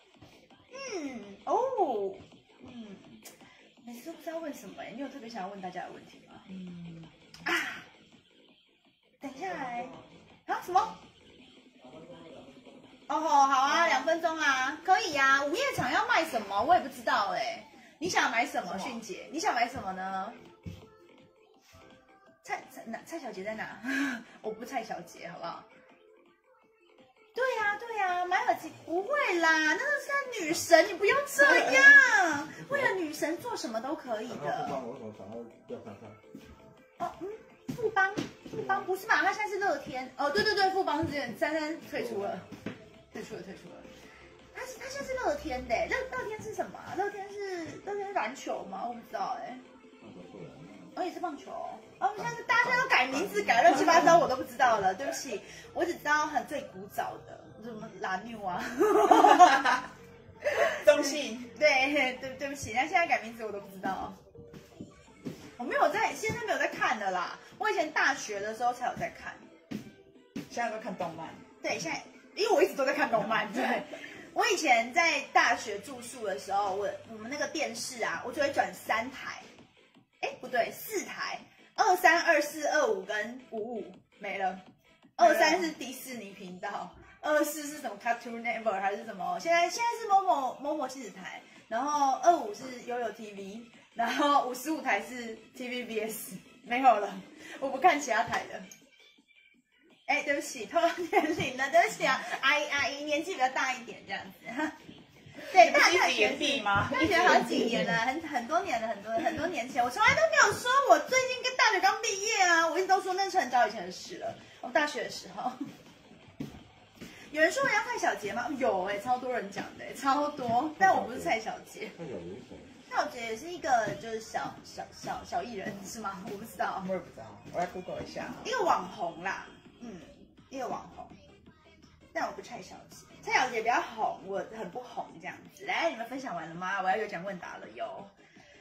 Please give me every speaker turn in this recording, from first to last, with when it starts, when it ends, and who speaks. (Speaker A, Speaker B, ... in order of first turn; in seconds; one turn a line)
Speaker A: 0.7-3.3
Speaker A: 3.8-6.5
Speaker B: 6.5-7.1
Speaker A: 7.5-7.9
Speaker A: 9.2-11.0
Speaker A: 13.1-20.4
Speaker B: 13.7-14.2
Speaker B: 18.6-19.0
Speaker A: 22.4-25.7
Speaker A: 27.4-34.8
Speaker C: 32.6-33.0
Speaker C: 34.3-36.2
Speaker A: 37.0-42.5
Speaker C: 38.5-38.9
Speaker C: 41.9-42.4
Speaker A: 43.1-43.9
Speaker A: 44.5-49.6
Speaker C: 50.0-50.9
Speaker A: 50.9-59.9
Speaker C: 52.2-54.2
Speaker B: 59.2-59.7
Speaker A: 60.6-64.2
Speaker B: 60.6-61.5
Speaker A: 65.6-69.5
Speaker B: 70.5-71.4
Speaker A: 71.6-79.5
Speaker A: 80.2-84.6
Speaker A: 85.2-98.7
Speaker B: 85.2-85.7
Speaker A: 100.1-104.8
Speaker B: 105.4-108.0
Speaker A: 105.5-115.6
Speaker A: 117.3-122.0
Speaker C: 120.8-121.3
Speaker C: 122.0-122.7
Speaker A: 122.9-126.9
Speaker B: 126.8-128.5
Speaker A: 128.4-131.2
Speaker A: 132.1-138.1